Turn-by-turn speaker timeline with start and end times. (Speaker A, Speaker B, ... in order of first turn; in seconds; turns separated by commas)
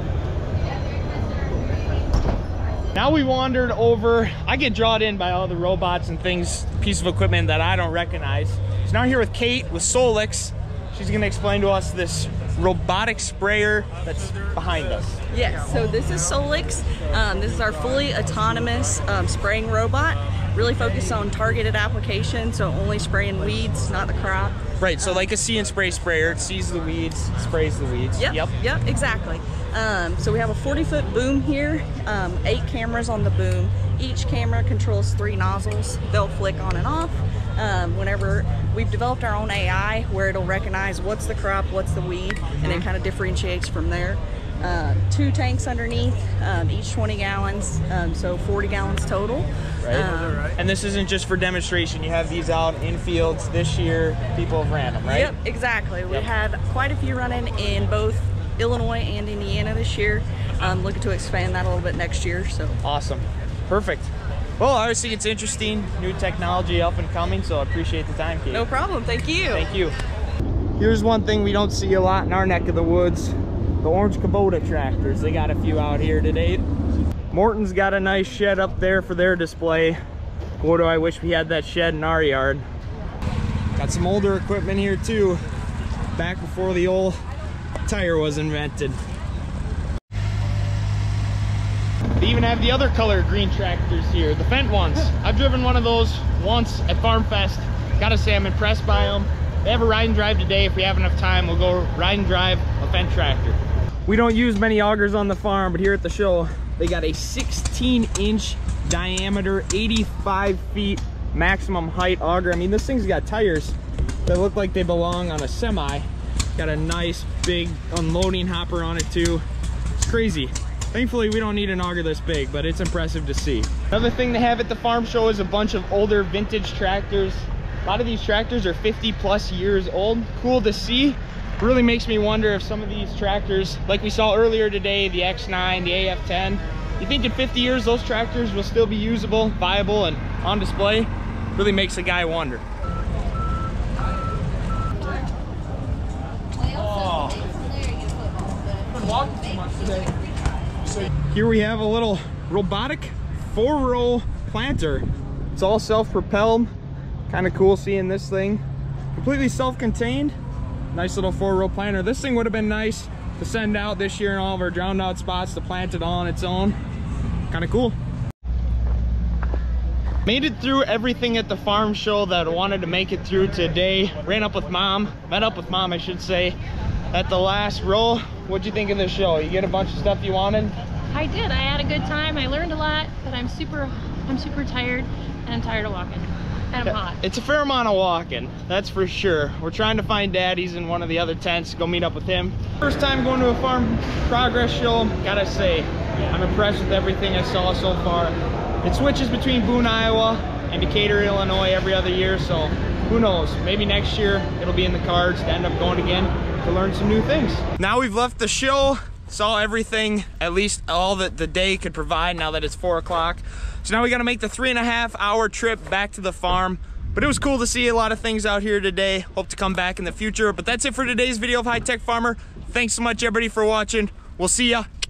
Speaker A: 3.0-15.2, Speaker B: 15.3-25.3, Speaker A: 24.8-28.5, Speaker B: 28.2-50.5, Speaker A: 49.8-55.3, Speaker B: 55.0-62.8, Speaker A: 62.8-68.7, Speaker B: 68.5-69.7, Speaker A: 69.5-70.0, Speaker A: 70.8-76.7, Speaker A: 77.3-80.0, Speaker A: 80.6-82.7, Speaker A: 83.8-85.4, Speaker A: 86.2-87.2, Speaker A: 87.8-89.0, Speaker A: 92.2-119.5, Speaker A: 120.0-142.6, Speaker A: 146.8-147.4, Speaker A: 148.9-150.1, Speaker A: 151.3-156.7, Speaker A: 157.3-158.6, Speaker A: 159.2-160.3, Speaker A: 160.9-166.8, Speaker A: 167.5-168.0, Speaker A: 170.3-176.6, Speaker A: 177.1-180.8, Speaker C: 181.1-187.2, Speaker A: 186.8-224.9